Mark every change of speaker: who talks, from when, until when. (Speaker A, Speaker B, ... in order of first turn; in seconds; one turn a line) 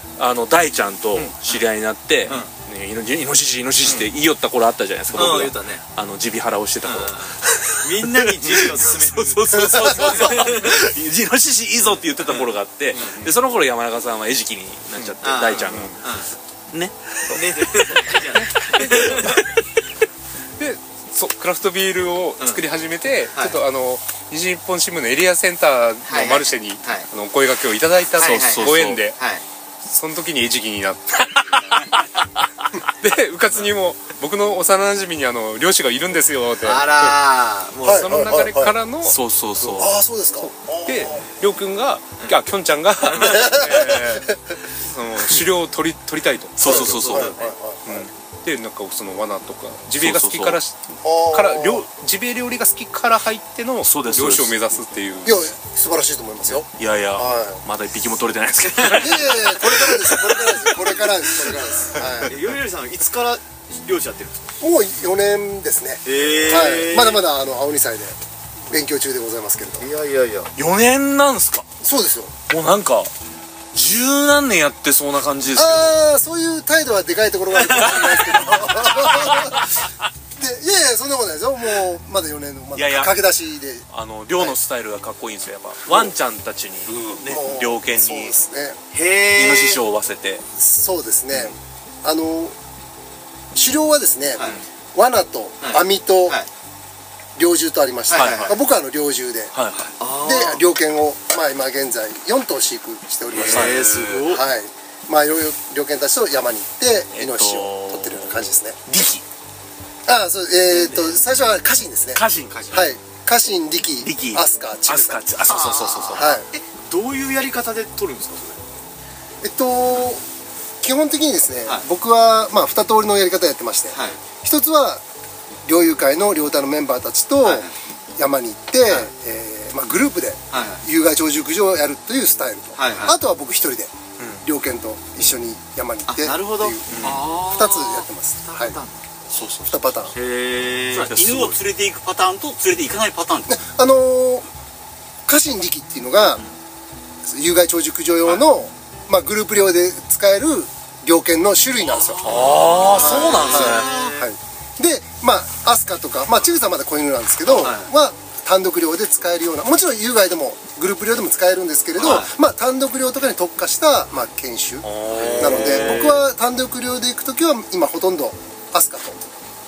Speaker A: 0.2-16.0
Speaker B: 5.1-5.8
Speaker B: 6.8-10.9
Speaker C: 9.6-10.0
Speaker B: 12.3-13.3
Speaker D: 15.0-16.0
Speaker B: 15.2-16.3
Speaker A: 16.7-18.1
Speaker B: 17.3-19.4
Speaker D: 18.3-19.4
Speaker D: 20.6-29.2
Speaker B: 26.1-27.1
Speaker B: 28.2-29.4
Speaker A: 28.2-29.0
Speaker D: 29.9-31.6
Speaker A: 31.5-31.7
Speaker D: 33.0-37.2
Speaker B: 36.6-38.1
Speaker C: 37.8-38.8
Speaker D: 37.9-39.9
Speaker A: 39.0-40.0
Speaker C: 39.8-41.2
Speaker D: 40.4-46.8
Speaker B: 43.0-44.0
Speaker C: 43.2-44.4
Speaker A: 46.6-47.4
Speaker C: 46.6-48.0
Speaker B: 46.6-47.5
Speaker D: 47.9-55.5
Speaker A: 50.0-50.6
Speaker C: 51.0-51.9
Speaker A: 53.9-54.8
Speaker C: 55.2-57.6
Speaker A: 56.7-62.2
Speaker C: 58.9-62.3
Speaker B: 62.2-64.5
Speaker C: 64.6-69.9
Speaker B: 66.0-67.2
Speaker B: 69.8-70.5
Speaker A: 70.6-71.7
Speaker C: 71.8-72.3
Speaker A: 72.5-73.1
Speaker A: 73.7-76.0
Speaker C: 75.5-79.8
Speaker B: 77.6-79.3
Speaker C: 80.4-83.8
Speaker A: 82.8-83.1
Speaker A: 83.9-88.3
Speaker C: 87.2-88.8
Speaker B: 88.9-89.8
Speaker A: 89.3-90.4
Speaker C: 90.6-92.5
Speaker C: 93.5-96.4
Speaker B: 95.6-96.5
Speaker C: 97.4-99.5
Speaker B: 98.1-98.5
Speaker A: 98.1-98.6
Speaker A: 99.5-100.0
Speaker B: 100.0-100.6
Speaker C: 100.2-108.8
Speaker B: 103.3-104.4
Speaker A: 103.3-104.3
Speaker A: 107.1-109.2
Speaker C: 110.1-115.6
Speaker A: 112.1-112.8
Speaker B: 112.5-112.8
Speaker A: 114.0-116.4
Speaker B: 115.4-118.6
Speaker C: 116.1-116.5
Speaker C: 119.4-120.2
Speaker C: 120.8-125.0
Speaker B: 123.9-124.2
Speaker C: 125.7-138.8
Speaker B: 127.5-127.7
Speaker B: 130.5-130.8
Speaker B: 132.8-133.2
Speaker A: 134.2-134.4
Speaker B: 136.1-139.1
Speaker A: 136.9-137.2
Speaker A: 139.3-139.9
Speaker C: 139.7-140.1
Speaker B: 140.1-141.1
Speaker A: 140.9-141.6
Speaker E: 141.1-143.6
Speaker C: 143.5-144.5
Speaker C: 145.3-146.4
Speaker C: 147.2-152.3
Speaker E: 152.0-154.2
Speaker B: 152.1-154.2
Speaker A: 152.2-154.0
Speaker C: 152.9-169.3
Speaker B: 157.5-157.9
Speaker B: 162.0-162.3
Speaker A: 164.8-166.1
Speaker B: 165.1-166.2